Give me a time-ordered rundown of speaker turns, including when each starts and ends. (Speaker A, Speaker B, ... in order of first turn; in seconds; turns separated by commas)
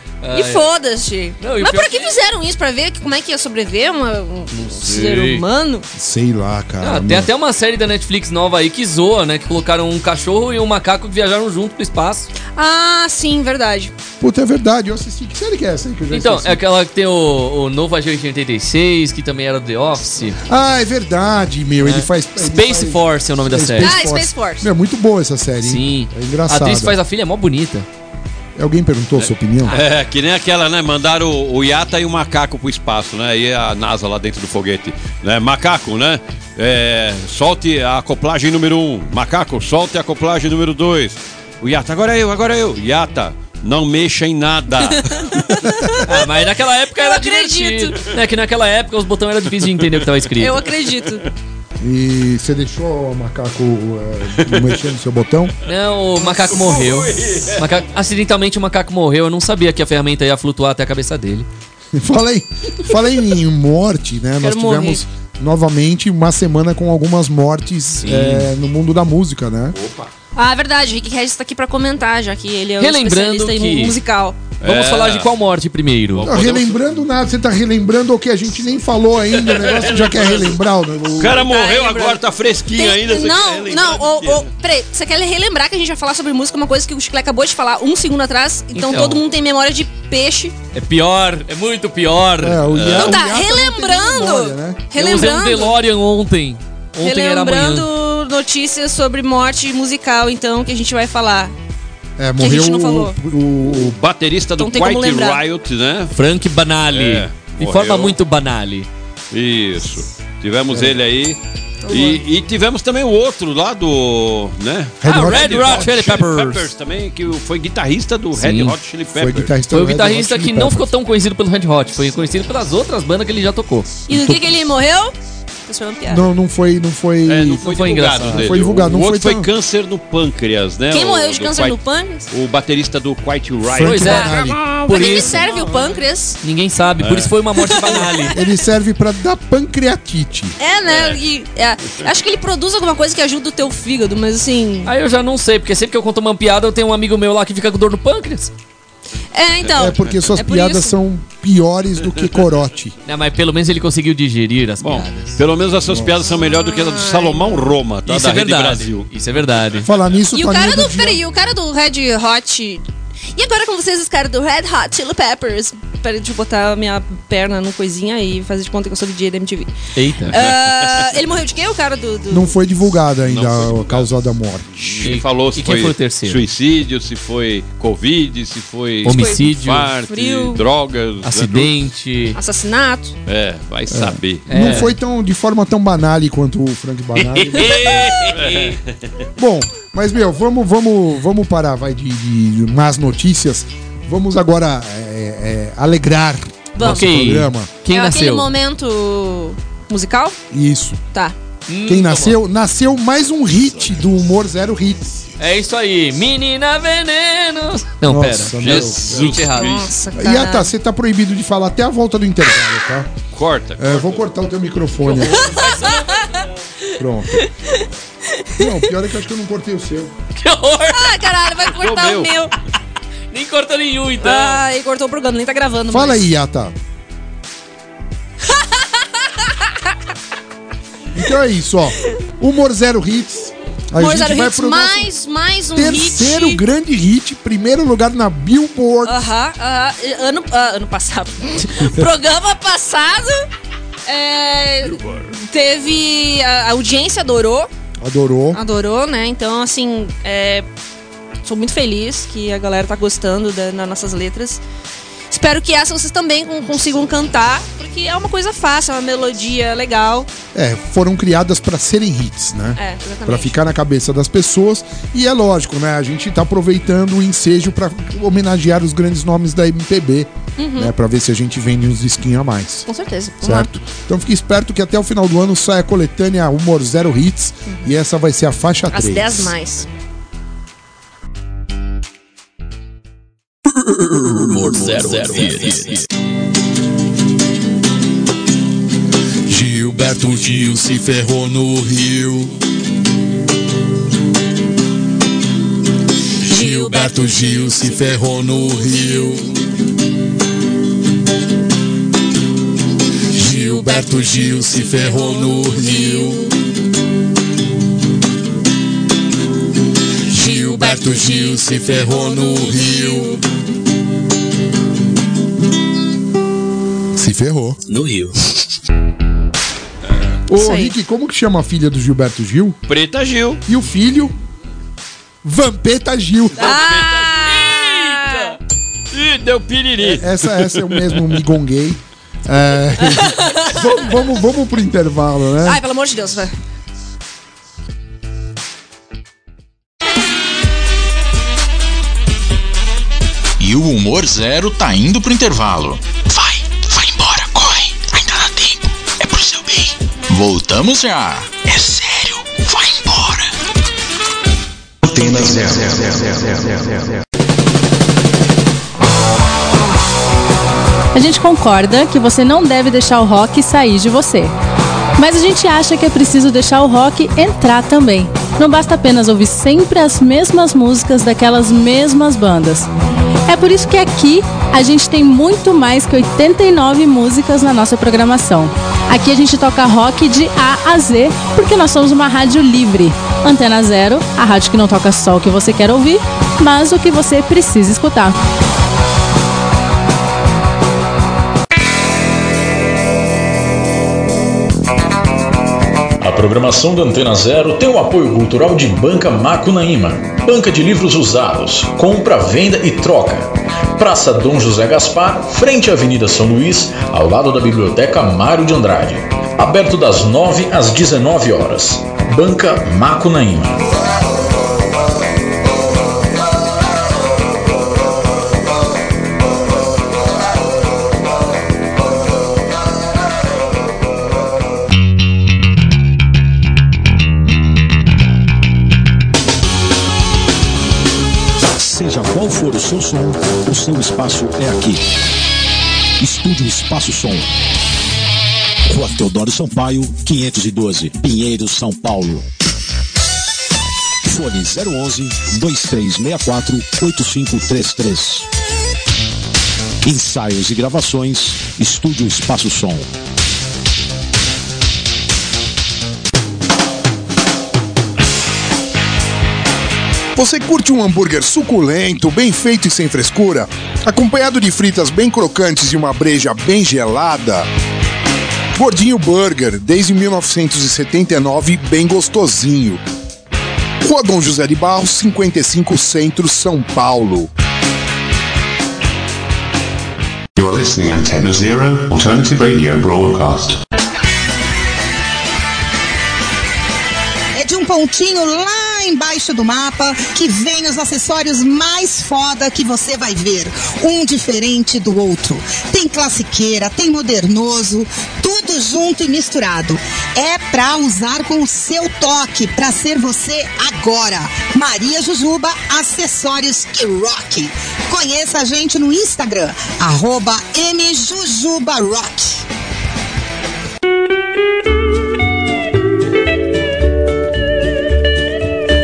Speaker A: 0.2-0.7, Speaker B: 0.3-5.9, Speaker A: 1.4-2.1, Speaker A: 4.5-5.4, Speaker C: 5.9-7.3, Speaker A: 6.8-12.3, Speaker B: 12.6-13.9, Speaker C: 14.2-16.6, Speaker A: 16.1-20.4, Speaker C: 20.5-27.0, Speaker A: 21.8-24.0, Speaker B: 23.8-24.7, Speaker A: 25.6-27.9, Speaker C: 28.6-29.8, Speaker D: 29.2-45.3, Speaker B: 45.0-46.0, Speaker A: 46.0-50.7, Speaker B: 47.0-48.0, Speaker B: 50.4-51.3, Speaker C: 51.8-55.5, Speaker A: 55.7-61.5, Speaker D: 56.2-57.6, Speaker C: 62.0-69.8, Speaker B: 64.4-65.0, Speaker A: 68.0-68.5, Speaker D: 69.7-70.1, Speaker B: 70.3-74.4, Speaker A: 72.8-74.0, Speaker D: 74.6-75.3, Speaker A: 74.6-76.3, Speaker D: 76.1-77.1, Speaker C: 76.2-81.4, Speaker D: 79.5-80.5, Speaker D: 81.2-84.5, Speaker B: 81.3-90.5, Speaker A: 88.8-89.2, Speaker A: 90.7-92.6, Speaker C: 92.4-94.8, Speaker D: 92.7-93.2, Speaker B: 92.9-95.8, Speaker A: 95.0-97.9, Speaker B: 97.0-101.5, Speaker C: 102.2-104.0, Speaker B: 102.4-103.2, Speaker D: 103.7-106.1, Speaker B: 104.6-105.4, Speaker A: 106.1-108.9, Speaker D: 106.9-108.2, Speaker D: 109.3-119.5, Speaker C: 110.7-111.0, Speaker B: 111.8-112.2, Speaker C: 115.0-116.1, Speaker A: 115.0-116.7, Speaker A: 118.4-118.7, Speaker C: 119.2-120.9, Speaker A: 119.7-123.9, Speaker B: 124.1-125.2, Speaker C: 124.1-124.6, Speaker B: 125.7-126.2, Speaker C: 126.1-129.5, Speaker D: 127.3-131.8, Speaker A: 127.7-128.6, Speaker B: 130.9-132.2, Speaker D: 132.3-134.4, Speaker C: 133.7-135.7, Speaker A: 133.8-134.3, Speaker A: 134.9-135.5, Speaker B: 134.9-136.4, Speaker A: 136.4-138.3, Speaker D: 137.0-137.3, Speaker B: 137.6-138.4, Speaker C: 138.3-140.6, Speaker B: 140.6-144.9, Speaker D: 140.9-141.2, Speaker A: 144.8-148.5, Speaker B: 149.3-150.9, Speaker C: 149.8-152.9, Speaker A: 153.1-155.4, Speaker D: 154.8-159.1, Speaker C: 155.9-156.3, Speaker B: 156.7-157.7, Speaker A: 158.1-159.9, Speaker C: 159.8-161.2, Speaker B: 160.3-169.7, Speaker A: 169.9-170.4, Speaker B: 170.3-172.5, Speaker D: 170.3-170.9, Speaker C: 172.3-174.8, Speaker D: 173.2-174.1, Speaker D: 174.7-181.8, Speaker A: 175.0-176.4, Speaker A: 179.0-179.9, Speaker B: 179.1-179.4, Speaker B: 180.1-180.6, Speaker A: 181.2-182.4, Speaker B: 182.3-183.2, Speaker D: 183.3-184.8, Speaker C: 183.9-188.2, Speaker A: 184.5-184.9, Speaker A: 187.2-188.8, Speaker D: 188.2-188.8, Speaker C: 189.4-197.7, Speaker B: 196.8-197.1, Speaker A: 196.8-198.5, Speaker B: 197.9-200.4, Speaker C: 200.5-201.0, Speaker A: 201.7-202.4, Speaker C: 201.9-205.2, Speaker A: 205.4-209.8, Speaker C: 208.1-209.4, Speaker D: 208.6-209.9, Speaker B: 209.6-210.7, Speaker C: 210.2-213.1, Speaker D: 213.3-214.3, Speaker C: 213.8-215.5, Speaker A: 215.1-216.4, Speaker B: 215.5-216.2, Speaker C: 217.0-217.4, Speaker C: 218.6-220.1, Speaker A: 220.4-221.2, Speaker B: 220.9-222.5, Speaker D: 221.7-222.3, Speaker A: 223.3-224.6, Speaker B: 224.2-226.2, Speaker C: 225.9-226.7, Speaker B: 228.5-229.7, Speaker C: 231.1-235.1, Speaker B: 234.0-236.6, Speaker C: 235.8-239.2, Speaker B: 239.0-243.5, Speaker B: 244.1-247.7, Speaker C: 248.0-248.6, Speaker B: 248.5-250.7, Speaker B: 251.4-254.6, Speaker B: 255.3-260.3, Speaker C: 260.5-272.9, Speaker B: 262.8-263.5, Speaker B: 270.6-270.9, Speaker B: 272.9-273.7, Speaker C: 273.4-279.6, Speaker B: 278.9-279.9, Speaker E: 284.3-285.9, Speaker A: 284.8-286.0, Speaker F: 289.5-292.6, Speaker F: 296.5-299.5, Speaker F: 303.3-306.5, Speaker F: 310.3-313.4, Speaker C: 317.1-317.8, Speaker C: 320.5-322.8, Speaker B: 320.6-320.9, Speaker D: 322.9-323.6, Speaker C: 323.7-324.4, Speaker C: 325.4-326.8, Speaker B: 326.6-328.6, Speaker D: 326.6-327.2, Speaker D: 329.1-331.2, Speaker C: 330.0-335.8, Speaker B: 333.1-334.1, Speaker B: 335.6-336.5, Speaker E: 343.6-353.5, Speaker G: 361.1-364.5, Speaker G: 365.2-372.9, Speaker G: 373.5-388.4, Speaker E: 396.2-413.8, Speaker H: 431.8-435.0, Speaker H: 436.2-437.5, Speaker H: 438.9-442.5, Speaker H: 444.3-448.5, Speaker H: 450.0-453.1, Speaker C: 460.4-467.7, Speaker C: 468.8-473.0, Speaker C: 474.0-477.5, Speaker I: 480.6-483.8, Speaker J: 487.5-512.7